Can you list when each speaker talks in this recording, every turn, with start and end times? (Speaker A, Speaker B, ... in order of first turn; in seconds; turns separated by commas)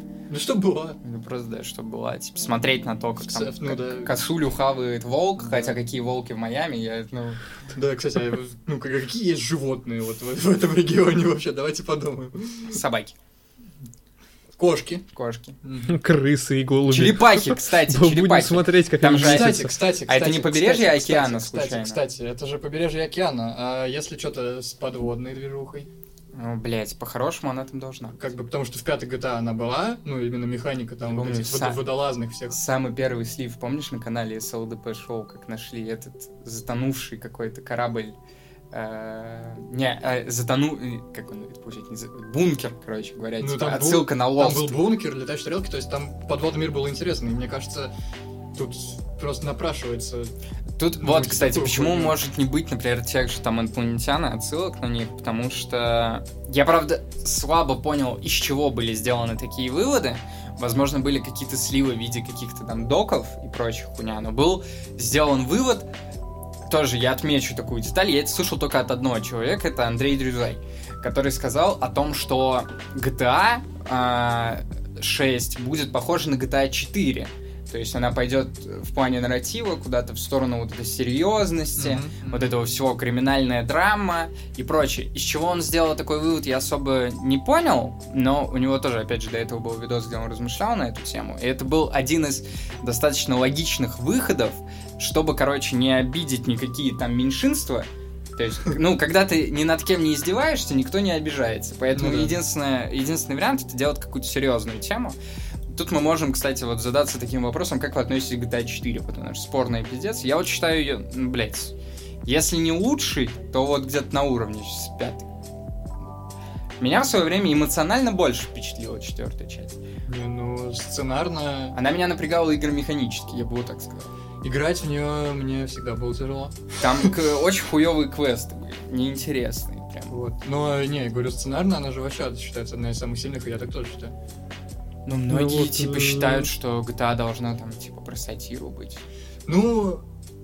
Speaker A: 0.3-1.0, Speaker B: 1.0-7.4, Speaker A: 3.2-4.1, Speaker A: 5.4-5.7, Speaker A: 7.7-12.8, Speaker B: 12.7-13.2, Speaker A: 14.5-15.1, Speaker B: 15.1-15.6, Speaker A: 15.6-16.0, Speaker C: 15.9-19.7, Speaker B: 16.9-22.0, Speaker A: 19.1-25.9, Speaker B: 26.3-28.2, Speaker A: 28.1-32.6, Speaker B: 31.1-31.8, Speaker B: 32.5-38.2, Speaker B: 38.7-44.8, Speaker A: 43.4-47.9, Speaker A: 48.5-50.3, Speaker B: 50.8-65.9, Speaker A: 51.0-52.1, Speaker B: 66.7-105.2, Speaker A: 81.8-82.5, Speaker A: 101.9-102.4, Speaker B: 105.7-111.7, Speaker B: 112.2-115.3, Speaker B: 116.8-119.8, Speaker A: 120.1-121.8, Speaker B: 121.7-124.1, Speaker A: 124.4-127.1, Speaker B: 126.8-130.2, Speaker A: 130.1-134.1, Speaker B: 135.1-139.0, Speaker C: 135.3-136.5, Speaker A: 139.5-140.0